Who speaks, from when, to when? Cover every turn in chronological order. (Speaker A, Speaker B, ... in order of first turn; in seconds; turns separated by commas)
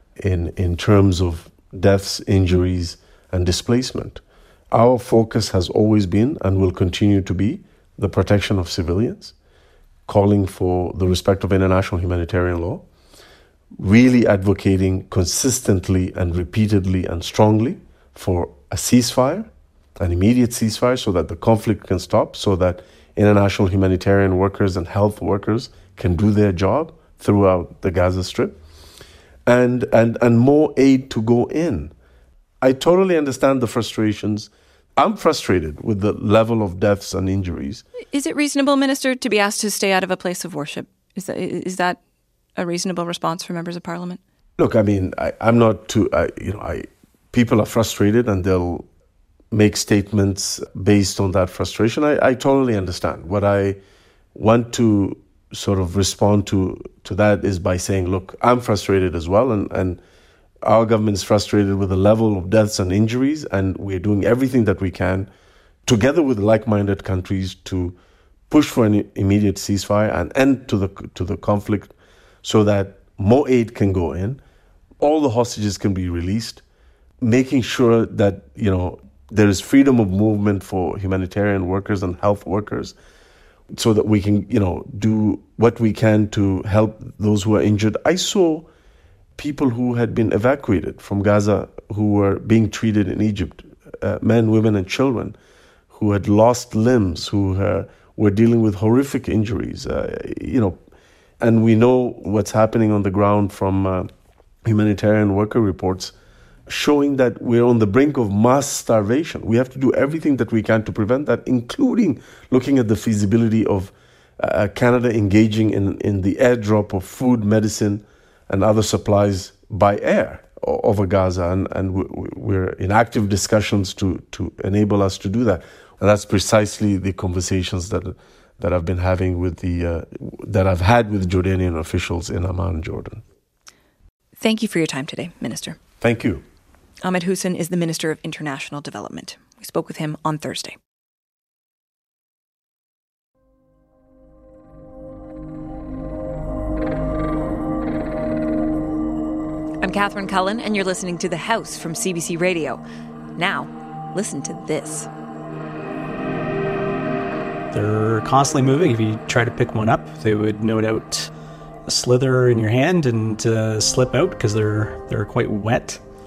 Speaker A: 0.2-9.3, Speaker A: 10.1-12.8, Speaker A: 13.8-28.6, Speaker A: 29.5-31.9, Speaker A: 32.6-37.9, Speaker B: 38.1-42.0, Speaker B: 42.6-44.2, Speaker A: 44.6-48.9, Speaker A: 49.5-53.8, Speaker A: 54.3-60.0, Speaker A: 60.6-65.3, Speaker A: 65.9-68.0, Speaker A: 68.5-71.9, Speaker A: 72.4-74.4, Speaker A: 75.0-76.6, Speaker A: 77.2-83.0, Speaker A: 83.7-88.7, Speaker A: 89.4-95.4, Speaker A: 95.9-100.8, Speaker A: 101.4-104.1, Speaker A: 104.6-106.1, Speaker A: 106.7-133.2, Speaker B: 134.4-135.8, Speaker A: 136.0-136.4, Speaker B: 137.0-140.8, Speaker B: 149.8-152.8, Speaker B: 153.4-155.1, Speaker C: 157.7-161.3, Speaker C: 161.9-166.0